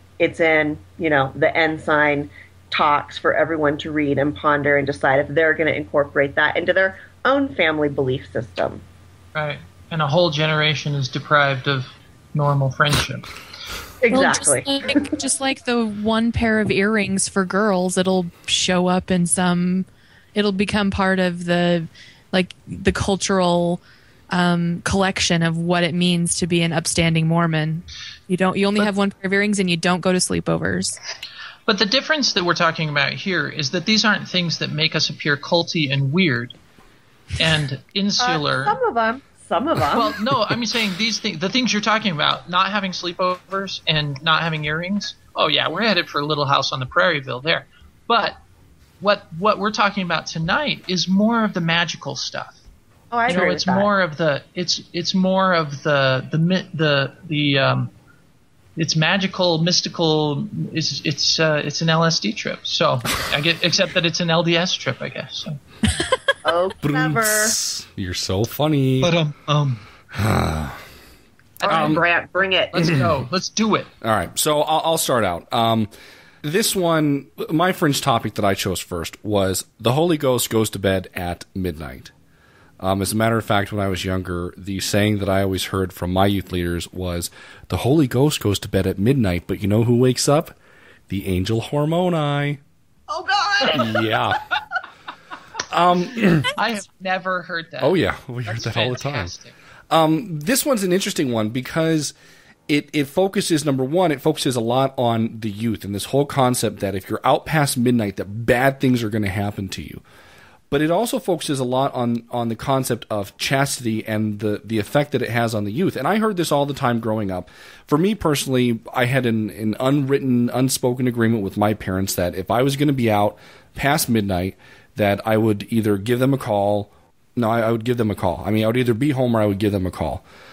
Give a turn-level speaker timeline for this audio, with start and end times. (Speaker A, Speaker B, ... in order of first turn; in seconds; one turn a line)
Speaker A: 0.2-8.8
Speaker B: 9.3-13.3
Speaker A: 14.0-15.0
Speaker C: 14.1-23.8
Speaker C: 24.3-31.0
Speaker B: 31.7-36.5
Speaker B: 37.4-38.8
Speaker A: 38.2-40.2
Speaker B: 39.9-48.4
Speaker B: 49.0-52.6
Speaker A: 53.1-53.9
Speaker B: 53.3-57.9
Speaker B: 58.8-65.6
Speaker A: 66.4-67.5
Speaker D: 66.8-69.1
Speaker B: 69.0-69.8
Speaker D: 70.1-70.8
Speaker B: 71.6-72.0
Speaker A: 71.6-73.0
Speaker D: 71.6-72.0
Speaker B: 72.7-73.9
Speaker D: 74.0-75.9
Speaker D: 76.4-82.1
Speaker D: 82.8-90.5
Speaker D: 91.1-92.6
Speaker A: 93.1-94.1
Speaker D: 93.7-94.4
Speaker D: 95.7-96.5
Speaker B: 96.6-99.5
Speaker D: 97.8-99.3
Speaker D: 99.9-102.1
Speaker D: 102.7-110.0
Speaker D: 110.7-130.2